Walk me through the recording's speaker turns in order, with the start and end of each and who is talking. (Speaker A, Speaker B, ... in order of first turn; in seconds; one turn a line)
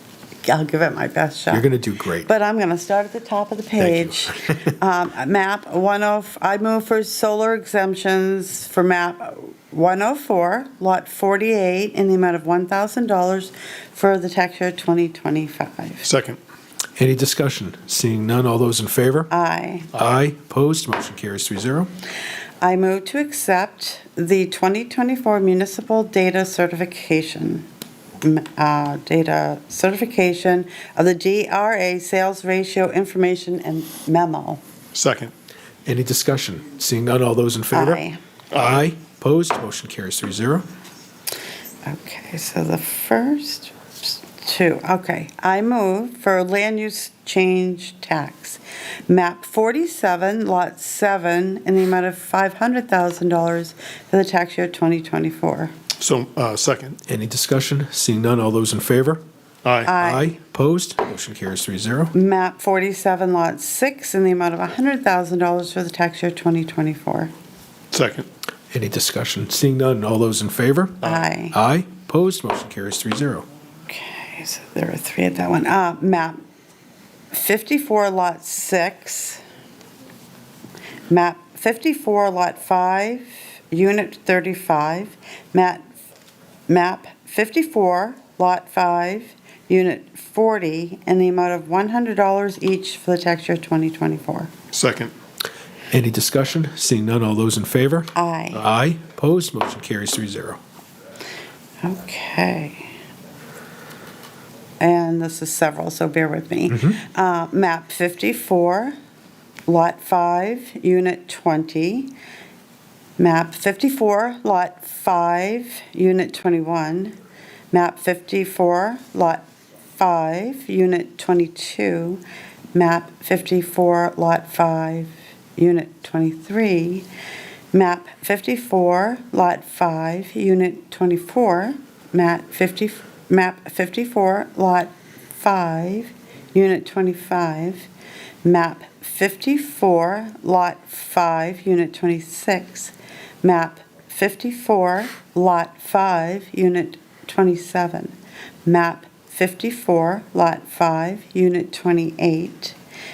Speaker A: 0.4-1.7
Speaker B: 1.5-2.3
Speaker A: 2.2-16.1
Speaker B: 3.8-4.3
Speaker C: 16.0-16.4
Speaker B: 17.0-19.3
Speaker A: 19.3-19.9
Speaker B: 19.9-21.9
Speaker A: 22.6-27.7
Speaker A: 28.2-34.6
Speaker C: 34.9-35.3
Speaker B: 35.9-38.0
Speaker A: 37.7-38.2
Speaker C: 38.5-38.8
Speaker B: 38.5-40.7
Speaker A: 41.8-55.7
Speaker C: 56.0-57.0
Speaker B: 57.1-59.2
Speaker C: 59.6-59.9
Speaker A: 59.9-60.4
Speaker B: 59.9-62.1
Speaker A: 62.1-67.3
Speaker C: 67.9-68.3
Speaker B: 68.7-73.5
Speaker A: 71.0-71.6
Speaker A: 73.9-76.4
Speaker A: 77.3-79.4
Speaker A: 81.1-85.8
Speaker A: 86.7-94.5
Speaker C: 94.7-95.1
Speaker B: 95.9-100.6
Speaker A: 98.1-98.6
Speaker A: 101.8-102.9
Speaker A: 104.8-109.0
Speaker A: 109.7-112.1
Speaker A: 113.2-117.2
Speaker A: 117.7-119.4
Speaker A: 120.0-122.2
Speaker A: 122.7-127.1
Speaker A: 127.7-137.9
Speaker A: 138.4-148.1
Speaker A: 148.6-152.8